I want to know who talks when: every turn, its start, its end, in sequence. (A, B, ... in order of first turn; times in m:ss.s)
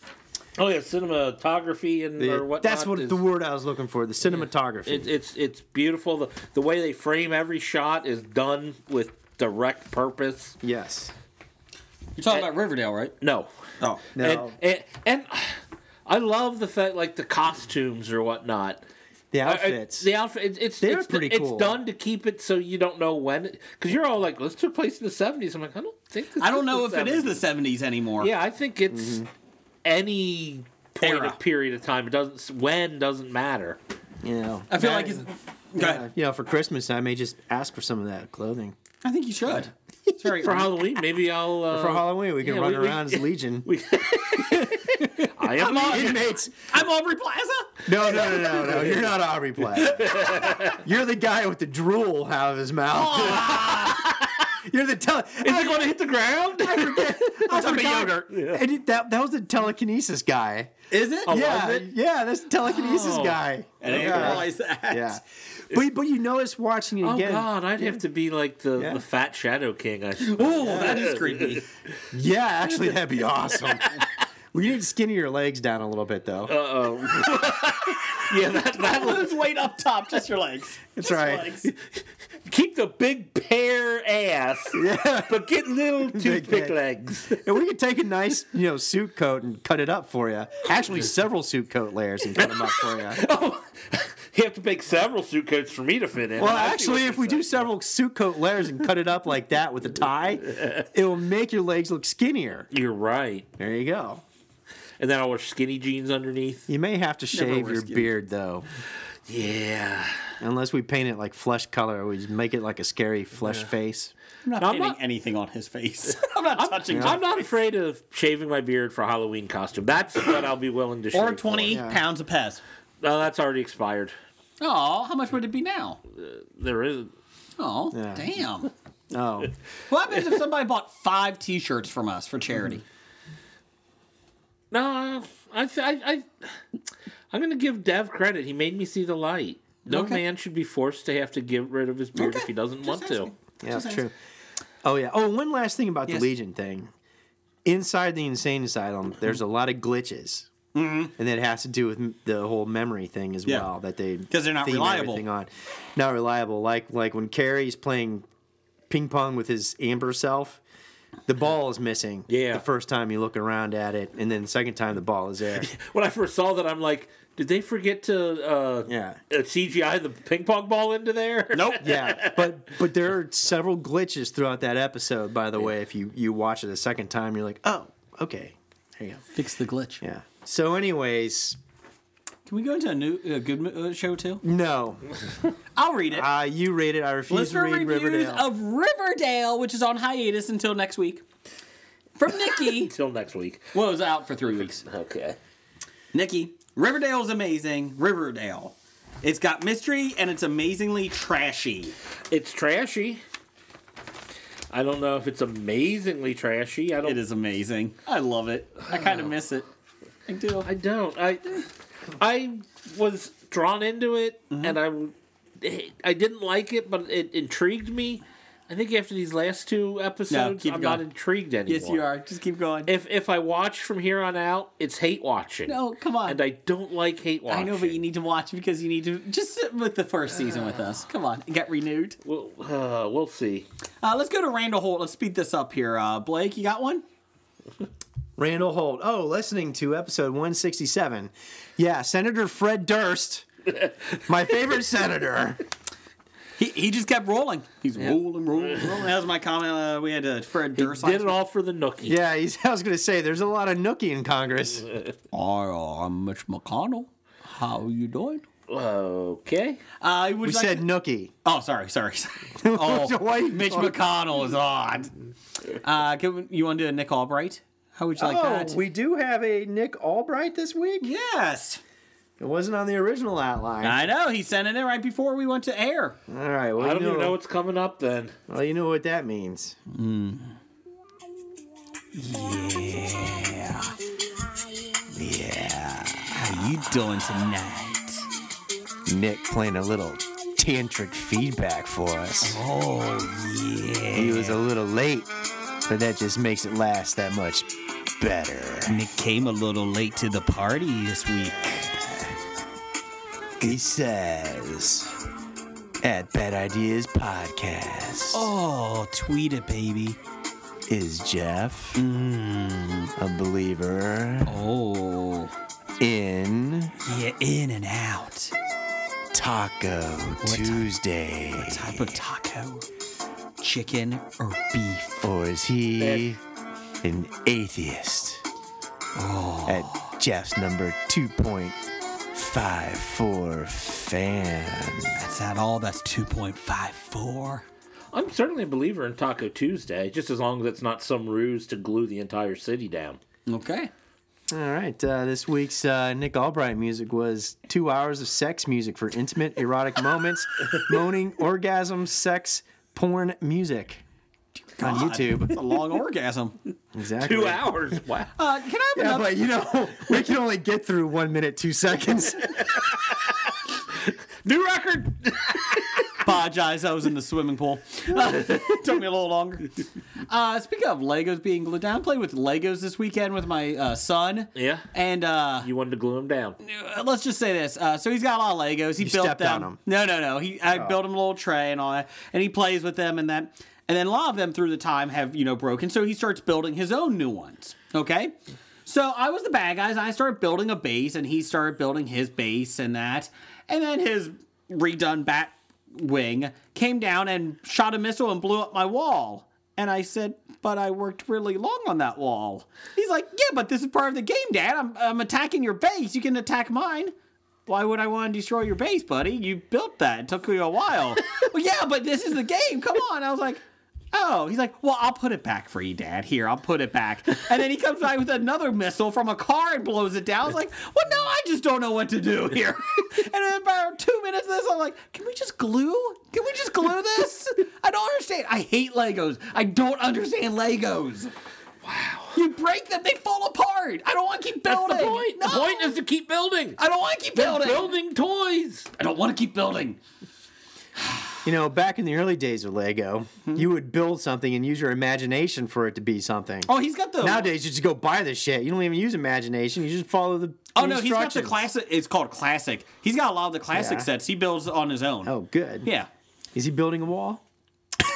0:00.6-0:03.2 A
0:02.2-0:05.1 B
0:04.8-0:10.6 A
0:10.6-0:11.1 B
0:12.2-0:13.1 C
0:13.2-0:13.5 A
0:14.1-0:18.8 A
0:14.1-0:14.5 B
0:19.3-0:20.1 B
0:19.4-0:27.4 A
0:20.8-0:21.8 B
0:26.4-0:28.3 C
0:28.2-0:29.2 A
0:28.9-0:29.3 B
0:29.8-0:33.8 A
0:31.0-0:31.4 C
0:34.2-0:35.2 B
0:34.7-0:36.0 C
0:35.8-0:38.8 B
0:39.0-0:40.7 C
0:40.4-0:46.2 A
0:41.7-0:43.7 B
0:44.4-0:46.5 B
0:45.6-0:46.2 C
0:46.7-0:47.9 C
0:47.8-0:54.1 B
0:48.2-0:49.0 A
0:49.8-0:50.8 A
0:52.9-0:54.0 C
0:54.6-0:56.0 B
0:55.4-0:57.6 A
0:56.5-1:07.5 B
0:57.5-0:58.3 C
0:58.3-0:58.6 A
1:00.9-1:01.4 C
1:01.3-1:01.9 A
1:02.6-1:03.4 A
1:03.8-1:05.2 C
1:04.0-1:04.4 A
1:07.0-1:11.6 A
1:08.8-1:09.0 B
1:10.2-1:11.6 C
1:12.1-1:14.0 B
1:13.6-1:14.0 A
1:14.5-1:16.5 B
1:16.5-1:19.4 A
1:18.7-1:21.7 C
1:21.0-1:21.5 B
1:22.4-1:27.4 A
1:24.7-1:25.5 B
1:26.1-1:26.7 B
1:27.3-1:33.2 B
1:32.4-1:37.7 A
1:36.4-1:42.7 B
1:42.7-1:43.4 A
1:43.6-1:44.2 B
1:45.0-1:46.7 A
1:46.7-1:48.6 B
1:47.3-1:48.1 C
1:49.3-1:50.3 A
1:50.4-1:54.1 B
1:54.4-1:57.2 C
1:54.6-1:55.0 A
1:56.5-2:01.8 A
1:56.9-1:57.2 B
2:01.1-2:02.6 C
2:01.7-2:02.0 B
2:03.0-2:04.1 A
2:04.6-2:06.0 C
2:06.1-2:07.1 A
2:07.6-2:08.7 C
2:07.9-2:08.2 B
2:09.1-2:09.5 B
2:09.9-2:12.8 C
2:14.7-2:16.3 A
2:17.3-2:23.3 A
2:19.9-2:20.2 C
2:22.1-2:24.1 C
2:23.6-2:24.1 B
2:24.8-2:26.9 B
2:27.6-2:30.5 B
2:30.7-2:31.1 C
2:31.2-2:38.2 B
2:34.3-2:35.2 C
2:38.9-2:40.6 B
2:41.3-2:45.7 B
2:42.3-2:42.6 A
2:45.6-2:52.5 A
2:48.9-2:49.2 B
2:51.5-2:51.8 C
2:51.8-2:59.2 B
2:59.3-3:00.0 C
3:00.0-3:01.6 B
3:02.4-3:04.4 C
3:04.4-3:05.0 B
3:05.8-3:06.3 C
3:06.1-3:08.4 B
3:07.3-3:11.2 C
3:12.2-3:12.9 C
3:12.6-3:13.7 A
3:13.7-3:14.8 C
3:14.5-3:15.4 A
3:16.1-3:21.9 C
3:22.3-3:23.2 A
3:24.7-3:27.2 A
3:27.0-3:29.7 C
3:30.3-3:30.7 C
3:30.6-3:31.6 A
3:32.2-3:42.0 A
3:34.5-3:34.8 C
3:40.3-3:41.0 C
3:41.7-3:42.9 C
3:42.8-3:48.0 A
3:45.6-3:46.4 C
3:47.5-3:52.2 C
3:52.2-3:53.7 A
3:54.0-3:57.0 C
3:58.4-4:03.4 B
4:04.2-4:05.6 B
4:06.6-4:11.3 C
4:10.8-4:12.2 A
4:12.0-4:14.8 B
4:15.3-4:18.4 C
4:18.7-4:19.8 A
4:20.0-4:20.9 C
4:20.4-4:21.3 B
4:21.4-4:25.1 C
4:22.6-4:24.0 B
4:25.8-4:28.8 C
4:28.2-4:31.1 B
4:31.0-4:31.8 C
4:32.4-4:34.0 B
4:33.8-4:36.2 C
4:36.3-4:37.4 B
4:36.8-4:38.4 A
4:38.5-4:39.8 B
4:39.9-4:40.6 C
4:42.1-4:43.9 C
4:45.1-4:46.6 B
4:46.3-4:48.2 C
4:49.0-4:52.6 B
4:52.4-4:54.6 C
4:54.1-4:55.3 B
4:55.9-4:59.0 B
4:58.9-5:02.0 C
5:01.8-5:02.2 B
5:03.6-5:05.1 B
5:06.0-5:08.5 B
5:08.3-5:10.2 C
5:10.9-5:12.0 B
5:11.9-5:13.1 C
5:13.2-5:14.5 B
5:14.4-5:15.5 C
5:16.0-5:16.9 B
5:17.0-5:18.5 C
5:19.3-5:22.2 B
5:20.4-5:20.9 C
5:21.6-5:22.8 C
5:23.6-5:25.2 C
5:25.2-5:26.4 B
5:26.0-5:26.3 A
5:27.0-5:28.4 B
5:29.2-5:30.1 C
5:29.6-5:31.8 B
5:32.3-5:35.1 B
5:35.2-5:37.6 C
5:38.1-5:43.2 A
5:43.5-5:43.9 C
5:44.5-5:54.0 B
5:54.7-5:56.6 C
5:54.8-5:55.6 B
5:56.9-5:58.0 B
5:57.2-5:58.3 A
5:58.4-5:59.4 C
5:58.9-6:02.7 B
6:04.4-6:06.1 A
6:06.2-6:09.7 C
6:08.2-6:08.8 A
6:10.3-6:15.7 C
6:14.5-6:14.8 A
6:15.6-6:16.6 A
6:16.6-6:47.1 C
6:19.0-6:19.8 B
6:47.7-6:53.6 C
6:54.1-7:11.3 C
7:11.8-7:12.3 A
7:12.3-7:16.0 C
7:14.6-7:16.8 A
7:16.8-7:17.9 C
7:17.3-7:18.9 A
7:19.0-7:20.0 C
7:21.4-7:31.6 B
7:26.7-7:27.5 C
7:30.7-7:35.3 C
7:33.7-7:34.1 B
7:35.2-7:35.9 B
7:35.8-7:36.1 C
7:36.5-7:37.4 B